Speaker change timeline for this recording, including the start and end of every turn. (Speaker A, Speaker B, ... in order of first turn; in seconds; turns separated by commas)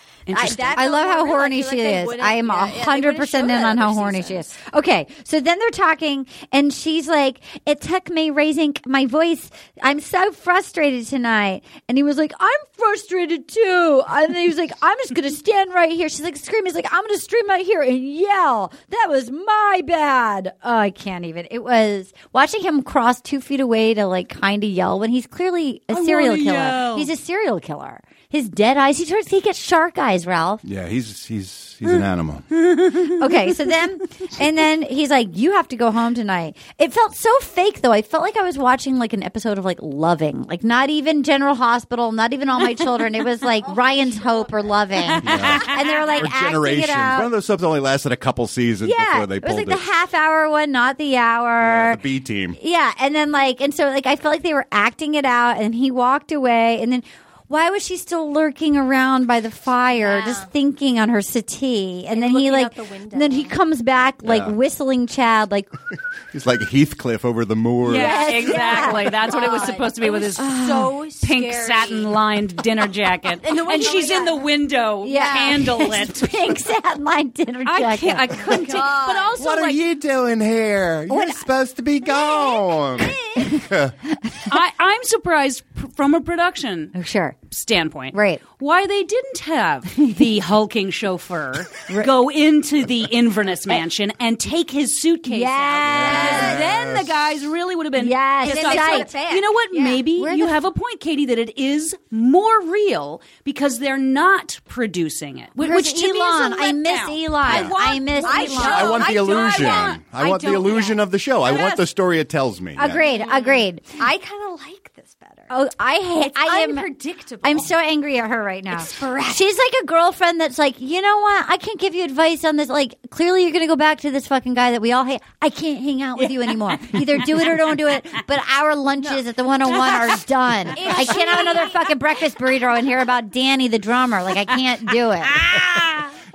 Speaker A: 0.3-0.7, Speaker B: 0.3-4.5, Speaker C: 0.3-30.6, Speaker A: 25.9-27.1, Speaker D: 30.6-32.5, Speaker A: 32.8-33.6, Speaker C: 33.1-47.3, Speaker B: 43.4-46.2, Speaker A: 45.2-45.7, Speaker D: 45.2-49.8, Speaker C: 48.8-52.0, Speaker D: 51.6-52.6, Speaker C: 52.6-65.7, Speaker B: 60.0-60.5, Speaker B: 62.1-63.6, Speaker D: 64.2-64.5, Speaker D: 66.3-68.3, Speaker A: 67.8-76.4, Speaker C: 67.9-69.4, Speaker B: 68.3-72.2, Speaker C: 70.3-70.9, Speaker B: 73.4-74.4, Speaker C: 75.0-78.6, Speaker A: 77.7-79.8, Speaker B: 78.4-79.4, Speaker D: 79.3-83.9, Speaker C: 81.1-81.5, Speaker B: 82.0-83.5, Speaker A: 84.5-86.9, Speaker C: 86.9-87.3, Speaker A: 87.5-110.0, Speaker C: 88.1-88.4, Speaker C: 95.3-96.6, Speaker D: 95.9-97.1, Speaker B: 96.1-96.6, Speaker C: 98.0-99.1, Speaker B: 98.4-100.1, Speaker C: 100.2-100.6, Speaker C: 105.6-109.0, Speaker D: 107.5-107.7, Speaker B: 108.2-111.9, Speaker D: 108.6-113.0, Speaker C: 112.8-113.8, Speaker B: 112.9-115.5, Speaker C: 115.5-116.9, Speaker B: 116.2-117.7, Speaker C: 117.4-135.5, Speaker B: 118.7-119.4, Speaker A: 126.8-127.4, Speaker B: 129.0-130.1, Speaker B: 130.7-131.9, Speaker A: 130.7-131.6, Speaker A: 135.3-136.1